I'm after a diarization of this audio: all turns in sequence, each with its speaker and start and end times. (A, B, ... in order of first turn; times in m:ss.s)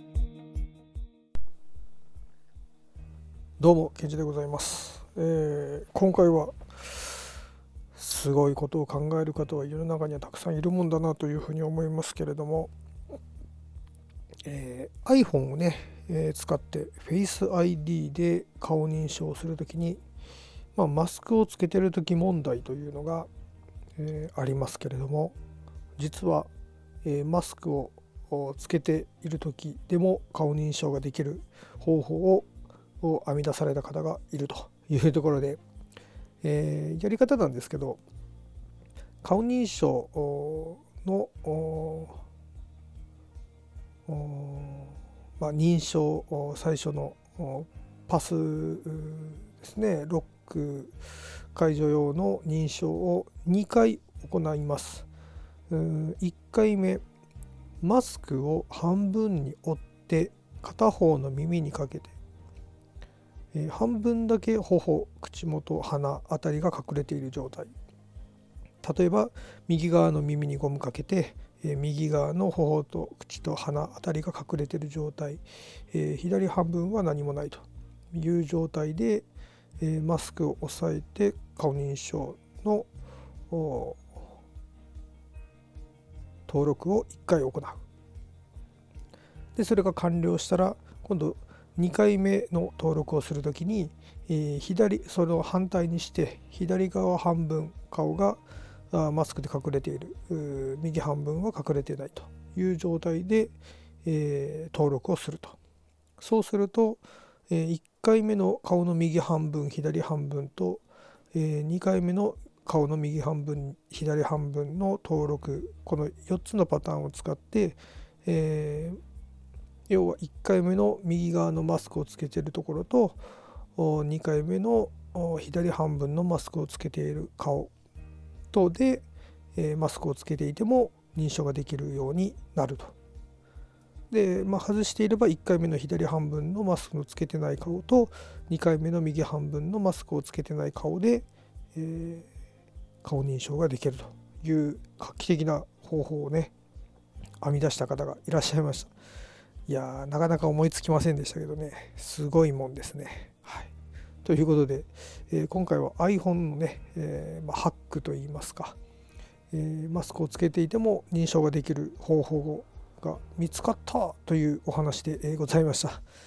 0:03.6-0:07.1 A
0:08.0-0:12.7 A
0:14.4-0:20.0 A
0:20.8-0:23.3 A
0:24.0-0:25.4 A
0:26.0-0:26.5 A
0:27.0-0:32.5 A
0:33.0-0:35.6 A
0:36.4-0:38.0 A
0:39.2-0:42.2 A
0:44.1-0:55.1 A
0:55.7-0:57.0 A
0:57.8-1:02.2 A
1:03.5-1:07.7 A
1:08.8-1:19.3 A
1:19.8-1:22.9 A
1:23.5-1:24.2 A
1:26.5-1:27.8 A
1:29.6-1:45.6 A
1:46.2-1:50.8 A
1:51.3-1:59.0 A
1:59.9-2:03.2 A
2:03.8-2:07.7 A
2:08.5-2:13.0 A
2:14.1-2:22.3 A
2:23.0-2:26.5 A
2:27.4-2:28.9 A
2:29.7-2:33.7 A
2:34.2-2:38.8 A
2:39.5-2:46.0 A